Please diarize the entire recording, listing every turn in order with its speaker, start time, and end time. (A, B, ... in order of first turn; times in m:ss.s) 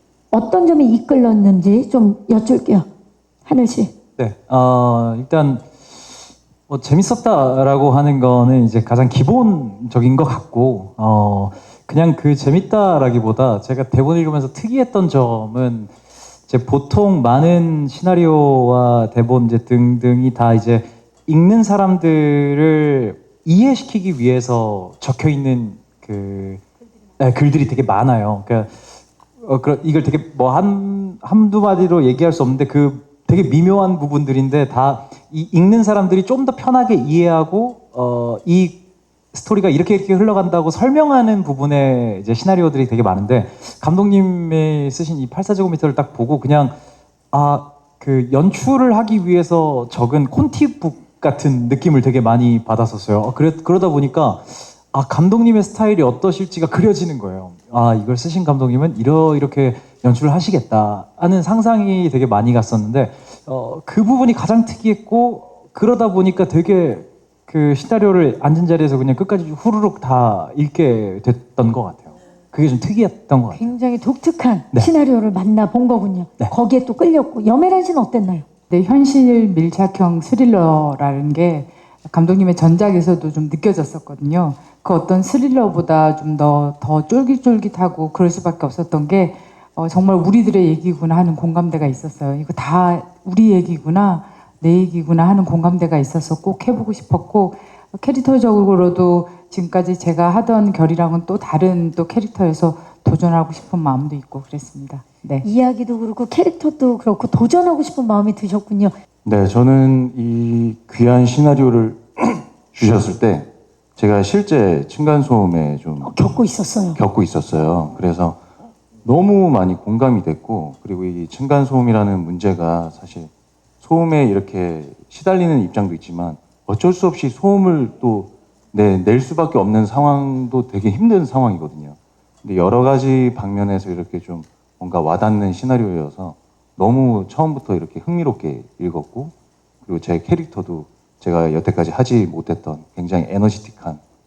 0:00.3-0:02.9 A
0:03.4-0:03.9 A
0:04.2-0:15.9 B
0:16.4-0:26.6 B
0:27.2-0:28.9 B
0:29.4-0:38.8 B
0:39.3-0:46.8 B
0:47.3-1:13.7 B
1:13.5-1:18.4 A
1:18.7-1:45.4 C
1:45.4-1:48.9 A
1:49.2-1:56.2 D
1:56.0-1:57.0 A
1:57.0-1:58.4 D
1:59.0-2:24.0 D